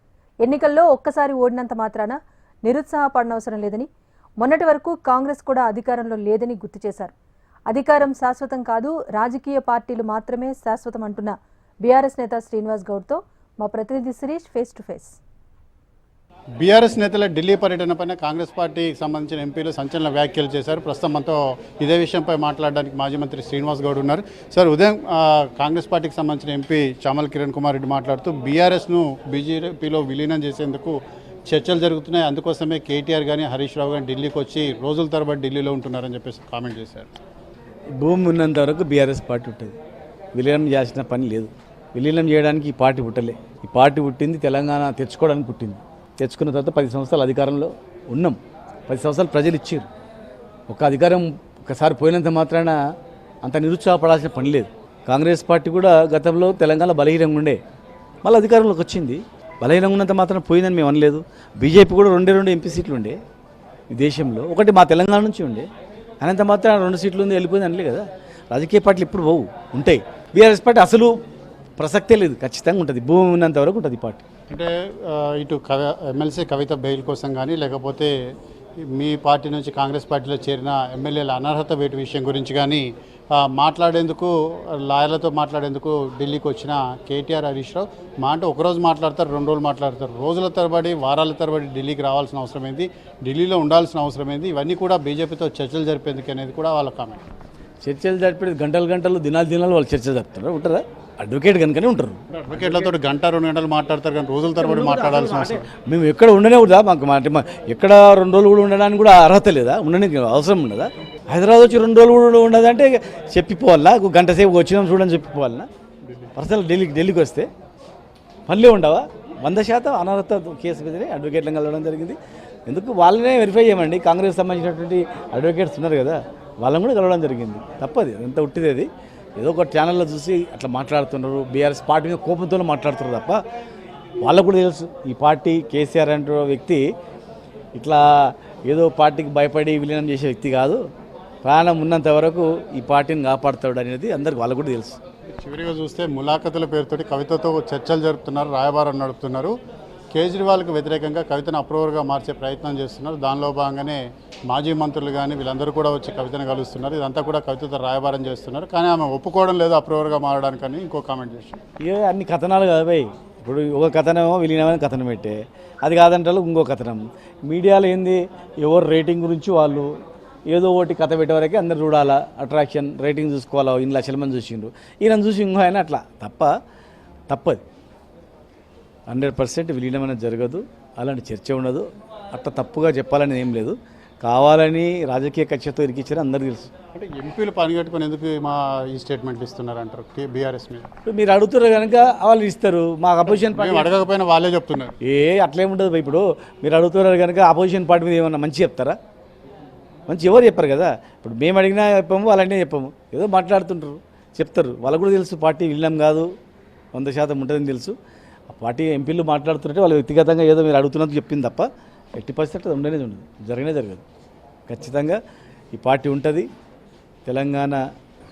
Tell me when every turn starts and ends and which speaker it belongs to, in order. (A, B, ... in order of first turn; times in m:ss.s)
0:00.4-0:03.9 A
0:04.4-0:07.1 A
0:07.7-0:15.2 A
0:16.6-0:37.1 B
0:38.0-0:39.7 C
0:40.4-0:49.9 C
0:50.7-0:52.8 C
0:53.4-0:57.6 C
0:58.2-1:03.2 C
1:03.9-1:05.7 C
1:06.2-1:11.2 C
1:11.8-1:14.2 C
1:14.5-1:18.1 B
1:18.9-1:37.2 B
1:37.8-1:42.2 C
1:42.3-1:45.7 B
1:44.6-1:55.7 C
1:56.4-1:57.5 C
1:58.5-2:13.4 C
2:14.2-2:16.8 C
2:17.8-2:20.8 C
2:21.4-2:25.0 C
2:25.3-2:29.5 B
2:30.1-2:41.6 B
2:41.8-2:49.9 C
2:50.5-2:56.5 C
2:57.3-2:57.6 C
2:59.1-3:06.7 C
3:07.0-3:10.9 B
3:11.1-3:13.9 C
3:13.3-3:15.0 B
3:15.0-3:19.0 C
3:20.1-3:26.3 C
3:26.9-3:28.0 C
3:28.5-3:34.0 C
3:34.7-3:35.2 C
3:35.7-3:36.5 C
3:37.3-3:37.8 C